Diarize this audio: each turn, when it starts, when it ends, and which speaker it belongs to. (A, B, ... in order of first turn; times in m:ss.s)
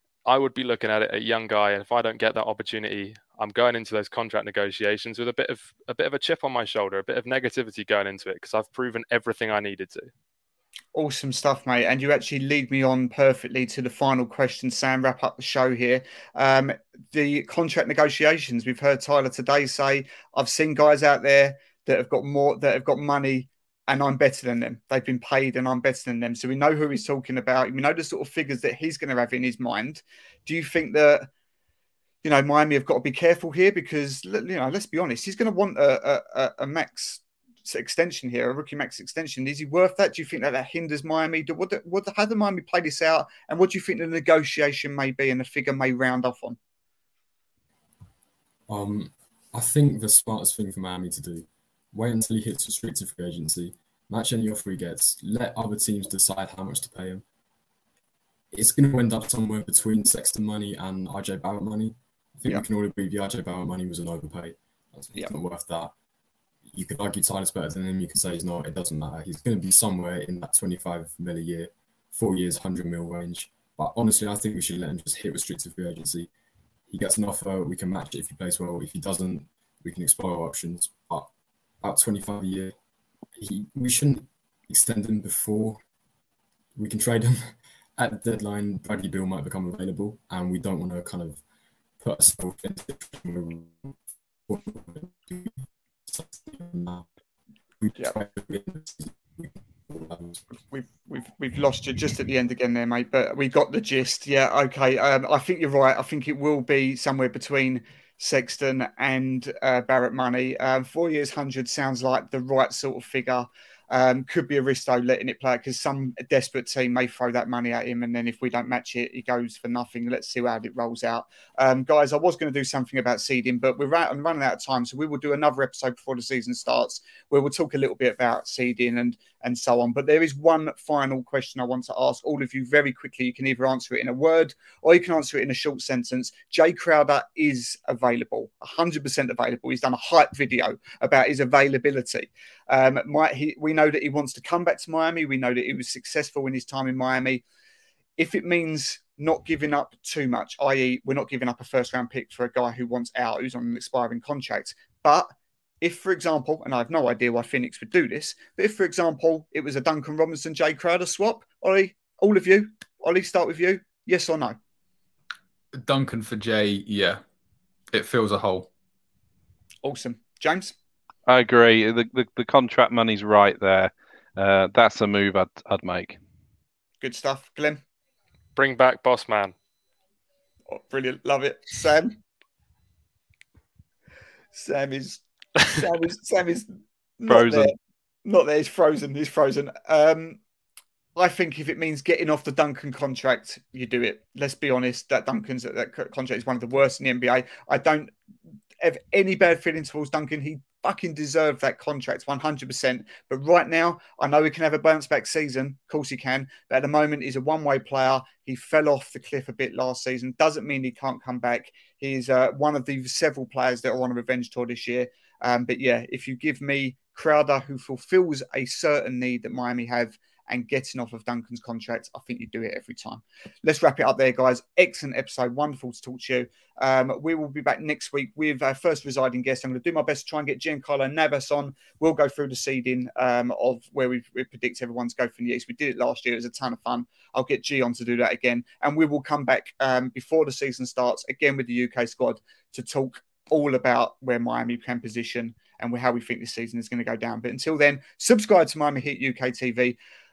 0:00.2-0:10.1 A
0:10.9-0:31.3 B
0:32.2-0:46.6 B
0:48.7-0:57.2 C
0:58.5-1:05.9 C
1:06.7-1:16.3 C
1:16.9-1:21.3 C
1:21.8-1:22.8 C
1:23.4-1:25.8 C
1:26.8-1:31.4 C
1:32.0-1:37.1 C
1:37.8-1:40.4 C
1:40.7-2:27.4 B
2:28.2-2:35.3 B
2:35.8-2:44.6 B
2:45.8-2:47.2 D
2:47.9-2:48.7 D
2:49.8-2:50.7 B
2:51.3-2:56.2 E
2:57.0-2:57.8 B
2:58.6-2:59.5 A
3:00.7-3:02.2 B
3:04.6-3:10.4 B
3:07.3-3:07.8 E
3:11.2-3:18.1 B
3:18.8-4:10.0 B